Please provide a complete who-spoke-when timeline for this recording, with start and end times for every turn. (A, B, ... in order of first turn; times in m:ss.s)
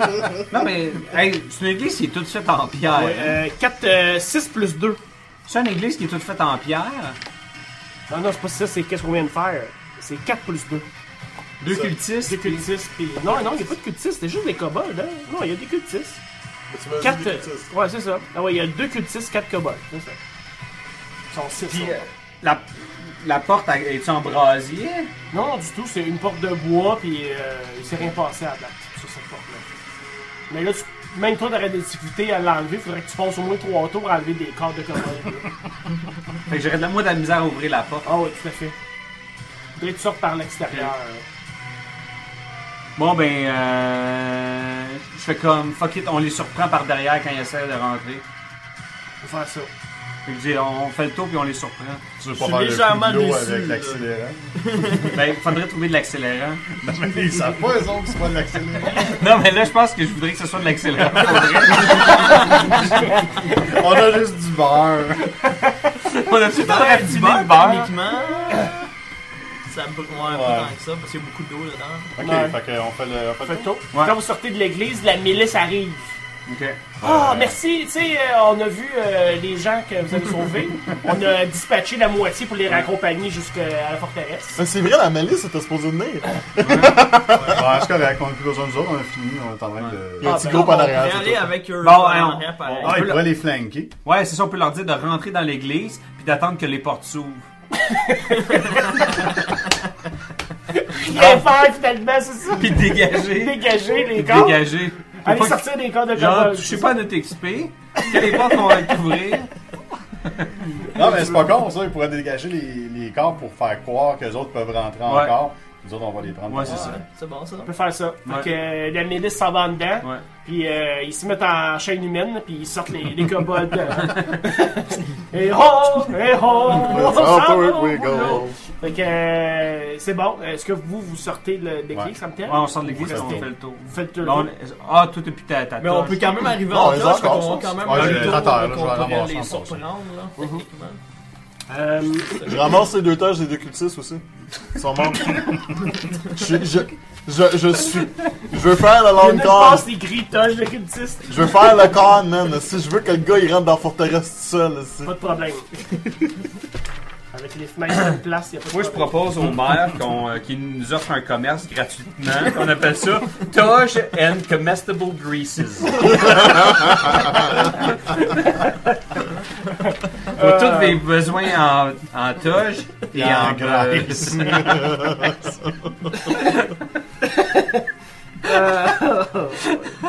0:00.5-0:03.4 A
0:02.9-0:05.0 B
0:05.5-0:07.2 A
0:08.1-0:10.9 B
0:11.6-0:12.7 A
0:11.7-0:12.0 C
0:12.2-0:16.2 B
0:16.7-0:17.7 C
0:17.0-0:20.2 B
0:21.3-0:22.1 B
0:21.6-0:25.1 A
0:25.3-0:29.7 B
0:30.5-0:35.5 B
0:36.5-0:38.1 A
0:38.0-0:38.8 B
0:39.8-0:41.2 B
0:43.0-0:48.2 A
0:49.2-0:49.7 B
0:50.3-0:52.0 A
0:52.2-0:54.6 D
0:52.4-0:55.1 E
0:55.1-0:56.8 A
0:56.8-0:59.2 D
0:59.0-1:03.1 A
1:03.4-1:05.3 D
1:06.0-1:07.9 A
1:06.6-1:08.9 E
1:09.7-1:12.1 E
1:10.2-1:10.7 D
1:12.2-1:13.7 D
1:12.2-1:12.6 B
1:13.4-1:16.2 B
1:16.5-1:17.0 A
1:17.0-1:17.6 D
1:17.0-1:24.6 B
1:24.6-1:27.7 C
1:26.6-1:27.0 A
1:27.4-1:30.5 D
1:30.2-1:31.6 C
1:30.2-1:31.0 B
1:30.3-1:33.1 E
1:31.8-1:33.3 A
1:32.8-1:33.9 D
1:34.0-1:37.4 A
1:37.8-1:39.1 B
1:40.7-1:47.0 B
1:41.1-1:41.4 A
1:42.5-1:49.5 A
1:50.9-1:57.0 D
1:55.1-1:55.4 A
1:56.5-1:57.0 A
1:56.6-1:57.7 E
1:57.6-2:14.5 B
1:58.2-1:58.6 A
2:06.7-2:08.6 C
2:12.5-2:16.3 A
2:13.0-2:13.5 D
2:15.8-2:21.0 E
2:16.6-2:18.4 C
2:17.8-2:19.8 D
2:20.4-2:20.6 B
2:21.7-2:22.6 B
2:22.3-2:22.7 E
2:22.4-2:29.9 C
2:29.1-2:31.9 B
2:31.3-2:35.2 C
2:35.0-2:35.9 B
2:37.3-2:39.2 B
2:38.7-2:46.8 A
2:50.3-2:55.2 A
2:50.3-2:51.0 B
2:53.1-2:55.2 D
2:57.3-2:57.8 B
2:58.4-3:00.0 B